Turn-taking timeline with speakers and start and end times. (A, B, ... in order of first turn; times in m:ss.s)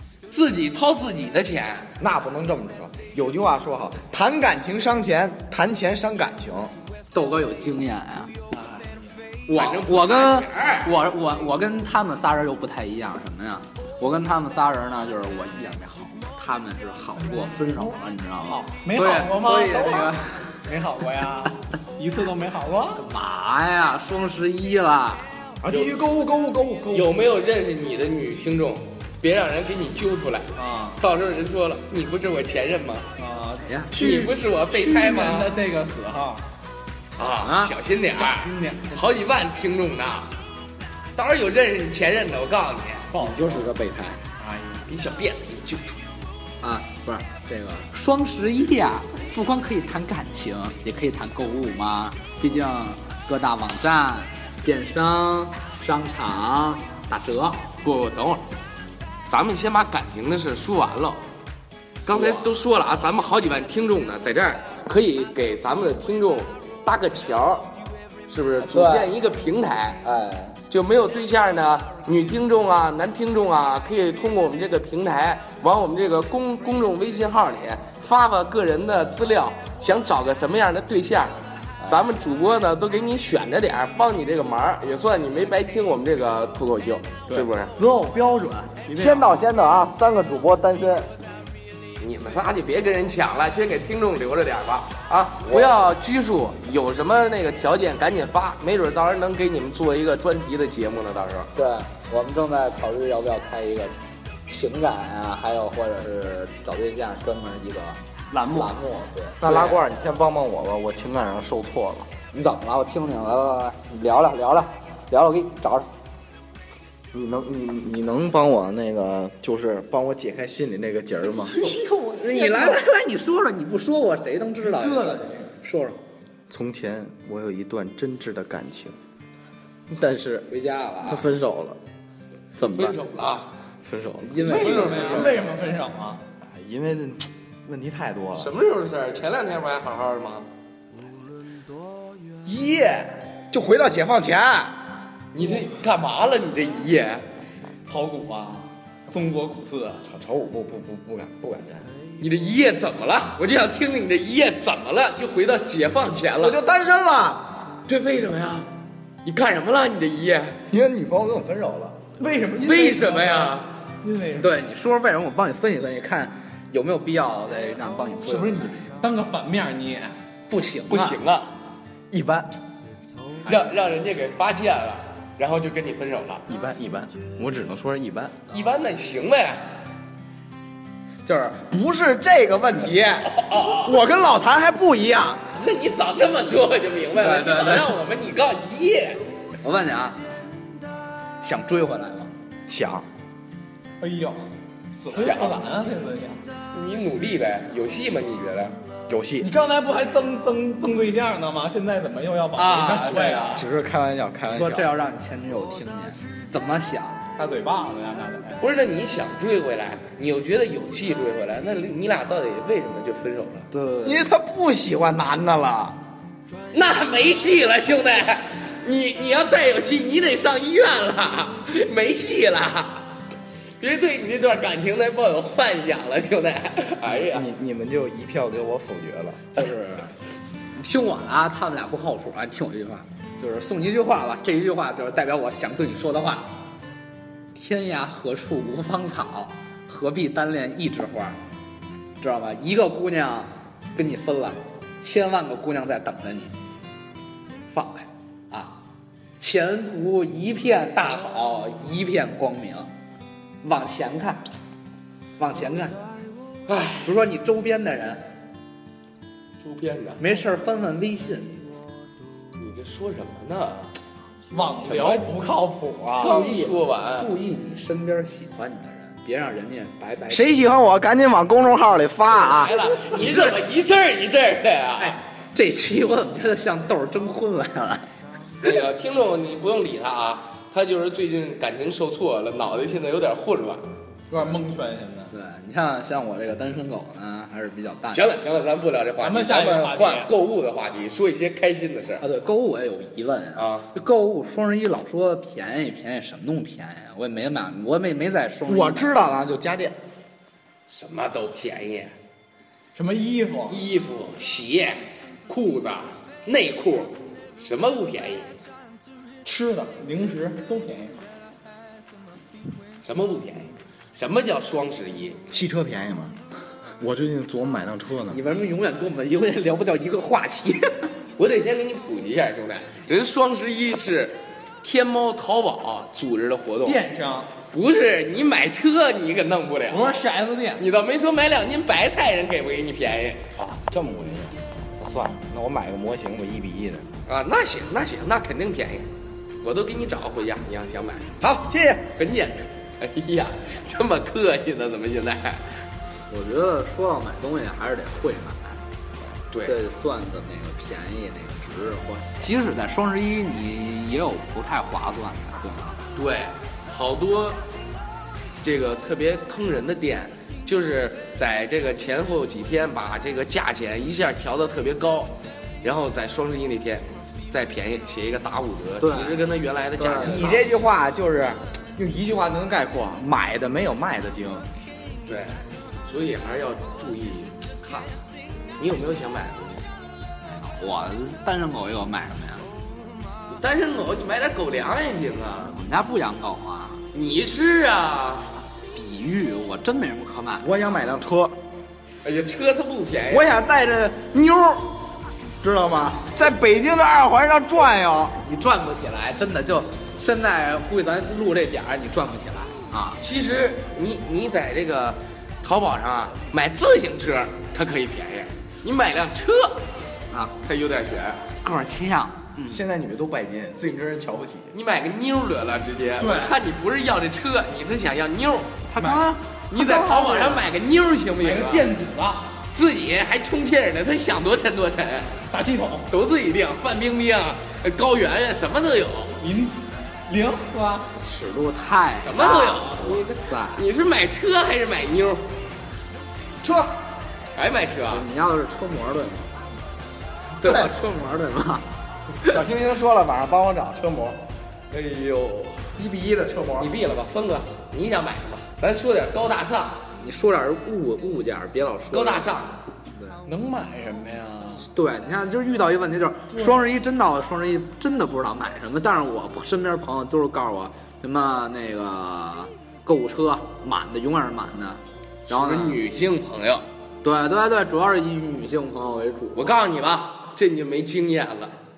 0:00.3-0:01.9 A
0:02.0-0:06.7 B
0:07.1-0:08.3 C
0:08.5-0:09.1 D
0:09.5-0:20.2 C
0:09.5-0:10.9 A
0:17.2-0:17.9 D
0:18.5-0:23.0 D
0:23.0-0:25.3 C
0:25.6-0:27.2 B
0:26.9-0:33.1 A
0:30.6-0:31.0 D
0:33.2-0:36.4 D
0:33.7-0:33.9 C
0:34.0-0:35.5 A
0:37.2-0:40.3 A
0:37.4-0:37.7 C
0:38.1-0:39.0 D
0:41.2-0:43.1 A
0:43.1-0:43.7 D
0:43.1-0:44.2 B
0:44.4-0:44.8 D
0:44.9-0:46.0 A
0:46.6-0:57.6 C
0:57.8-0:58.4 A
0:59.3-1:01.2 A
1:02.1-1:07.7 A
1:02.1-1:02.5 C
1:08.3-1:10.0 A
1:08.6-1:09.1 C
1:10.0-1:10.6 C
1:10.7-1:27.7 A
1:27.3-1:29.4 D
1:28.9-1:31.1 B
1:32.0-1:41.5 A
1:35.5-1:35.8 C
1:41.6-1:44.0 C
1:44.5-1:48.0 C
1:48.3-1:49.1 D
1:48.5-1:49.8 C
1:49.4-1:52.1 B
1:52.3-1:55.9 C
1:57.1-2:01.6 B
2:01.4-2:02.8 D
2:02.2-2:06.0 C
2:04.6-2:05.5 D
2:06.5-2:09.0 B
2:09.9-2:10.5 B
2:10.5-2:11.3 C
2:11.0-2:11.8 B
2:12.6-2:13.0 B
2:12.6-2:13.5 A
2:13.8-2:14.9 B
2:14.2-2:15.4 C
2:14.4-2:16.2 D
2:14.5-2:15.5 A
2:16.4-2:18.5 B
2:18.4-2:20.5 A
2:22.4-2:24.8 B
2:25.3-2:27.2 A
2:27.8-2:30.0 D
2:30.0-2:31.9 B
2:32.2-2:36.6 A
2:36.4-2:37.5 B
2:37.9-2:38.7 A
2:39.2-2:40.6 A
2:40.7-2:42.1 B
2:42.2-2:44.5 D
2:42.6-2:43.7 A
2:44.4-2:48.8 C
2:48.2-2:50.2 D
2:50.5-2:51.2 C
2:50.9-2:51.5 A
2:52.1-2:52.5 B
2:53.4-2:56.5 A
2:56.5-2:58.4 B
2:58.5-2:59.6 A
3:01.3-3:01.6 C
3:01.6-3:05.4 B
3:03.2-3:04.0 A
3:05.5-3:09.2 A
3:07.1-3:08.0 C
3:09.6-3:10.2 C
3:11.4-3:12.3 C
3:12.7-3:13.1 B
3:14.0-3:14.5 D
3:15.0-3:15.4 B
3:15.1-3:16.4 D
3:15.1-3:15.6 A
3:16.7-3:18.8 A
3:19.1-3:19.5 B
3:19.4-3:23.6 D
3:22.6-3:23.6 C
3:23.2-3:24.9 B
3:24.5-3:27.2 C
3:27.4-3:28.6 D
3:28.6-3:33.7 A
3:33.7-3:34.3 C
3:34.0-3:36.0 B
3:36.7-3:43.0 A
3:43.8-3:47.5 A
3:47.1-3:49.7 B
3:49.5-3:50.1 C
3:50.8-3:56.5 C
3:57.5-4:01.4 C
4:02.2-4:06.6 C
4:07.7-4:08.8 C
4:09.4-4:12.9 C
4:13.6-4:14.4 C
4:15.4-4:16.1 C
4:16.7-4:17.1 A
4:17.0-4:18.2 C
4:19.6-4:20.2 A
4:20.2-4:21.7 C
4:22.6-4:23.9 A
4:24.5-4:26.4 D
4:24.8-4:25.3 A
4:26.2-4:27.3 A
4:26.2-4:30.5 C
4:30.3-4:32.8 B
4:32.4-4:35.2 A
4:33.1-4:33.6 C
4:35.0-4:38.1 C
4:38.6-4:43.8 A
4:44.3-4:45.3 D
4:45.3-4:48.3 C
4:48.1-4:52.2 A
4:49.2-4:50.3 D
4:52.2-4:59.1 C
4:53.6-4:53.9 A
4:58.7-5:00.0 B
5:00.9-5:02.1 A
5:03.0-5:03.8 D
5:03.7-5:08.5 A
5:09.4-5:11.1 D
5:13.0-5:15.4 A
5:15.5-5:16.4 B
5:17.0-5:18.4 B
5:18.3-5:21.1 C
5:21.4-5:27.0 A
5:26.8-5:27.5 D
5:27.7-5:30.2 A
5:29.9-5:30.8 D
5:30.8-5:33.4 A
5:33.6-5:37.1 B
5:37.3-5:39.1 A
5:39.6-5:41.3 A
5:41.4-5:42.1 B
5:42.2-5:45.7 A
5:46.3-5:48.8 C
5:49.5-5:49.8 A
5:49.6-5:56.0 C
5:56.2-5:57.6 A
5:58.6-6:10.7 A
6:09.0-6:09.4 C
6:10.0-6:10.5 C
6:10.2-6:14.7 B
6:15.3-6:18.1 A
6:18.8-6:19.9 A
6:20.4-6:22.7 C
6:23.5-6:25.8 A
6:25.7-6:27.0 C
6:27.1-6:28.5 A
6:28.9-6:30.7 C
6:30.6-6:31.6 B
6:32.2-6:33.5 A
6:33.3-6:35.0 B
6:35.6-6:38.4 B
6:38.4-6:43.2 C
6:43.2-6:49.8 A
6:50.6-6:51.4 A
6:51.6-6:52.8 C
6:52.7-6:54.7 B
6:54.7-6:58.9 A
6:56.2-6:56.6 D
6:58.9-7:00.7 C
6:59.0-6:59.2 D
6:59.7-7:01.9 A
7:01.4-7:02.6 D
7:02.7-7:05.4 A
7:05.5-7:06.1 D
7:06.1-7:09.4 A
7:09.4-7:11.1 D
7:11.2-7:13.8 C
7:12.2-7:15.4 A
7:16.6-7:16.9 B
7:17.6-7:18.3 A
7:18.1-7:19.5 C
7:20.6-7:21.9 C
7:20.6-7:20.9 B
7:22.4-7:26.9 B
7:26.8-7:30.0 A
7:30.2-7:32.5 C
7:32.1-7:32.8 A
7:33.2-7:33.4 C
7:33.5-7:34.8 D
7:34.8-7:46.0 C
7:45.5-7:46.9 A
7:47.2-7:49.7 C
7:49.5-7:51.7 A